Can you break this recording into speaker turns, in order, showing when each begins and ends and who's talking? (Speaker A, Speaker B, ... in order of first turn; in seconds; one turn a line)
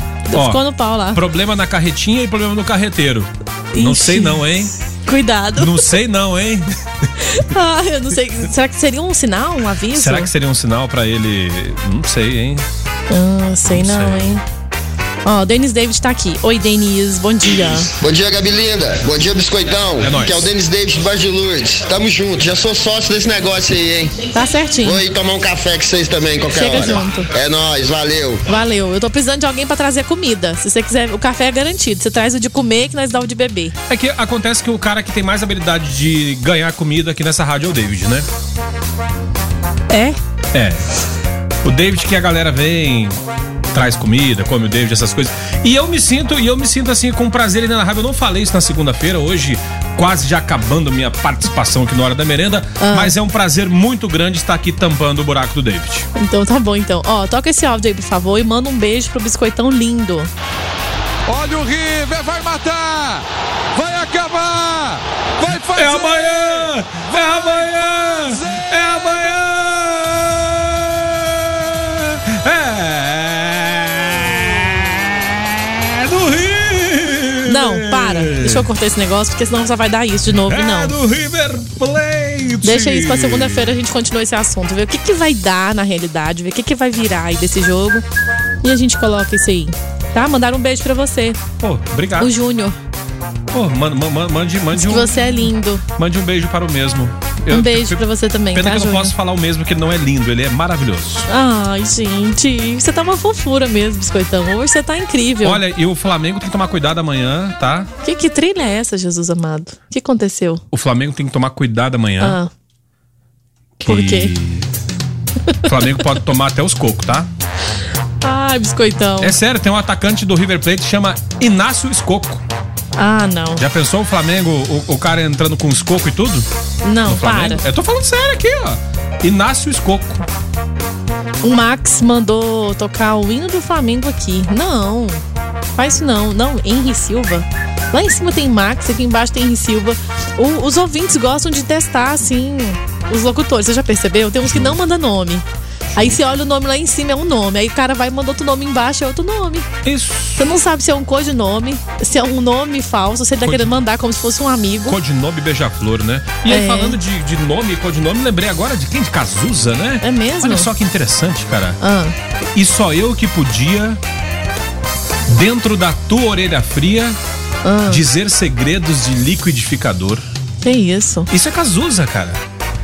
Speaker A: 0.3-1.2
Speaker B: 0.3-4.7
Speaker A: 3.7-4.5
Speaker A: 5.0-5.9
Speaker B: 5.6-6.7
Speaker A: 7.2-10.3
Speaker B: 9.9-12.7
Speaker A: 13.1-14.4
Speaker B: 13.7-14.4
Speaker A: 15.2-17.9
Speaker C: 18.0-24.3
Speaker B: 20.0-20.5
Speaker A: 24.3-25.0
Speaker C: 24.8-28.4
Speaker A: 26.5-27.3
Speaker A: 28.5-33.8
Speaker B: 33.9-38.3
Speaker A: 39.9-40.2
Speaker B: 40.5-40.8
Speaker B: 41.6-43.2
Speaker B: 43.7-56.1
Speaker A: 52.8-53.1
Speaker A: 56.1-60.3
Speaker D: 61.3-66.7
Speaker B: 65.7-78.7
Speaker A: 77.5-81.0
Speaker B: 80.3-83.8
Speaker A: 82.6-88.0
Speaker A: 88.6-91.4
Speaker B: 91.6-92.3
Speaker A: 92.2-92.8
Speaker B: 93.5-101.3
Speaker A: 94.7-95.8
Speaker A: 97.5-99.1
Speaker A: 101.3-105.6
Speaker B: 105.4-107.9
Speaker A: 108.0-110.6
Speaker B: 110.7-112.4
Speaker A: 112.2-112.5
Speaker B: 113.8-114.7
Speaker A: 113.9-114.3
Speaker B: 115.7-117.3
Speaker A: 118.2-119.4
Speaker B: 119.2-122.5
Speaker A: 123.0-123.6
Speaker B: 123.6-126.5
Speaker A: 126.8-127.6
Speaker B: 127.0-130.3
Speaker A: 131.4-135.2
Speaker A: 135.8-145.4
Speaker B: 144.4-144.8
Speaker B: 145.9-146.2
Speaker A: 146.0-149.7
Speaker B: 149.8-150.5
Speaker A: 150.4-155.0
Speaker B: 153.4-153.8
Speaker B: 154.9-161.8
Speaker A: 156.5-157.0
Speaker A: 160.0-160.7
Speaker A: 161.8-162.2
Speaker B: 162.6-164.0
Speaker B: 165.3-167.2
Speaker A: 167.6-168.0
Speaker B: 167.9-170.3
Speaker A: 170.6-171.3
Speaker B: 171.3-172.4